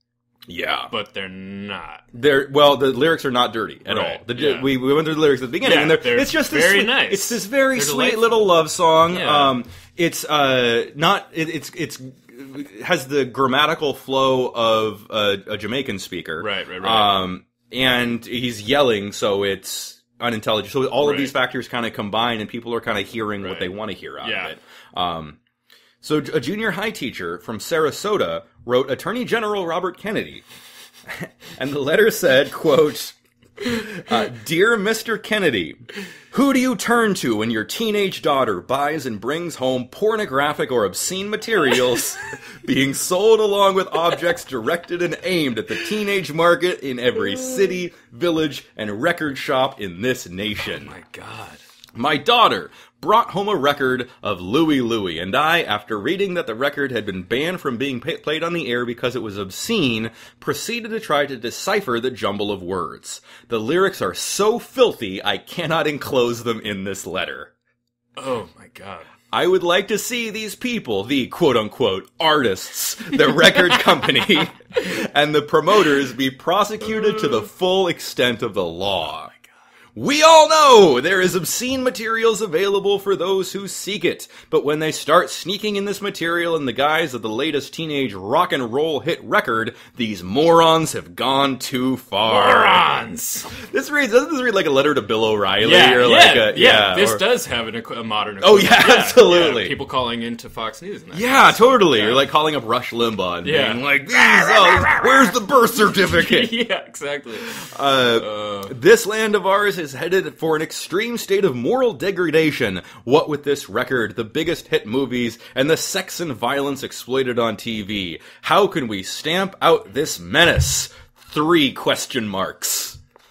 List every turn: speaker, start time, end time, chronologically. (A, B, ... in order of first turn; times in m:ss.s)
0:00.5-0:00.9 A
0:00.9-0:02.0 B
0:02.1-0:25.4 A
0:03.9-0:04.8 B
0:05.6-0:08.4 B
0:09.1-0:09.6 B
0:16.4-0:17.2 B
0:21.0-0:21.4 B
0:23.4-0:24.6 B
0:26.0-0:30.4 A
0:31.1-0:51.0 A
0:50.6-0:51.6 B
0:52.0-1:07.5 A
1:08.2-1:09.1 B
1:09.3-1:19.3 A
1:20.0-1:32.9 A
1:32.3-1:33.5 B
1:33.5-1:37.2 A
1:35.6-1:42.3 B
1:38.4-1:39.8 A
1:41.1-1:46.6 A
1:43.4-1:48.7 B
1:47.5-2:03.0 A